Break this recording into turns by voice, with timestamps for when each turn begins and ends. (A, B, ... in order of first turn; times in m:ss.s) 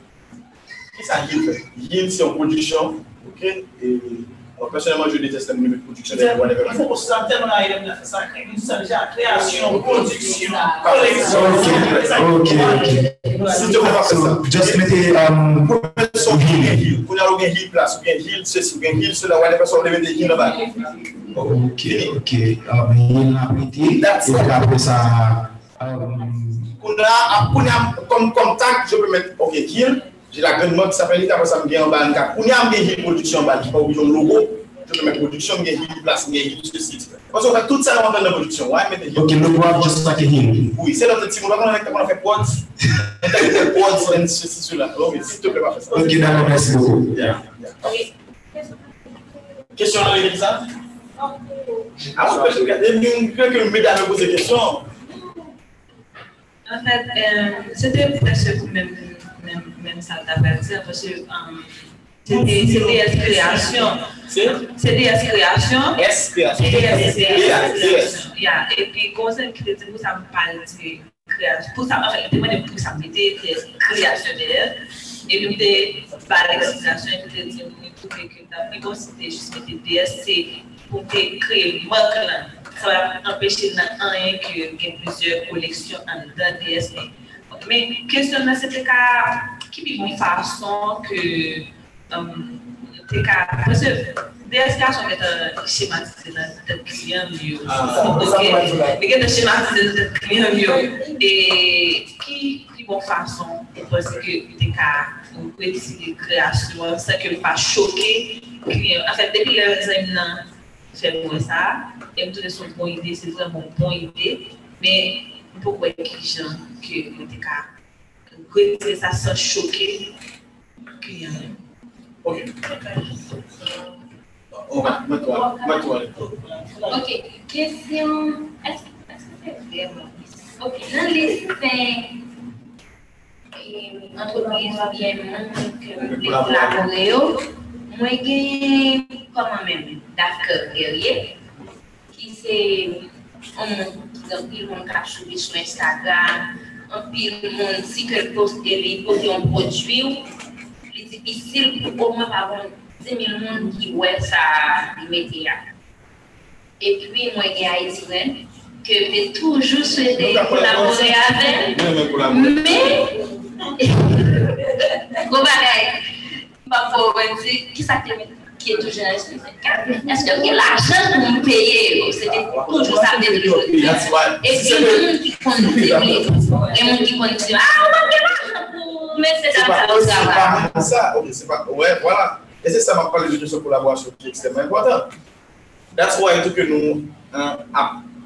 0:00.9-0:06.8 A
0:06.1-0:13.9 B
0:09.5-0:12.0 C
0:10.8-0:12.3 A
0:11.3-0:15.7 D
0:13.4-0:15.0 A
0:15.6-0:20.7 A
0:16.3-0:16.8 D
0:21.3-0:22.2 A
0:21.4-0:26.7 D
0:24.0-0:24.8 A
0:26.8-0:47.9 A
0:39.2-0:40.6 D
0:45.9-0:47.4 D
0:49.8-0:50.7 A
0:52.1-0:54.9 A
0:56.7-1:06.0 E
1:02.3-1:04.0 B
1:04.3-1:04.6 A
1:06.0-1:08.2 A
1:06.6-1:57.7 E
1:37.7-1:38.2 A
1:37.8-1:39.0 D
1:58.3-2:00.1 E
2:01.0-2:01.6 E
2:02.2-2:02.7 A
2:04.6-2:06.2 A
2:06.4-2:06.9 B
2:06.9-2:12.2 C
2:13.6-2:21.4 C
2:16.0-2:16.8 A
2:22.1-2:30.3 C
2:30.9-2:35.6 C
2:36.8-2:43.2 C
2:40.0-2:42.8 A
2:43.8-2:44.6 C
2:45.1-2:46.0 C
2:46.7-3:00.9 C
2:52.5-2:56.5 A
2:56.5-2:57.0 E
2:59.5-3:05.1 A
3:06.0-3:08.0 A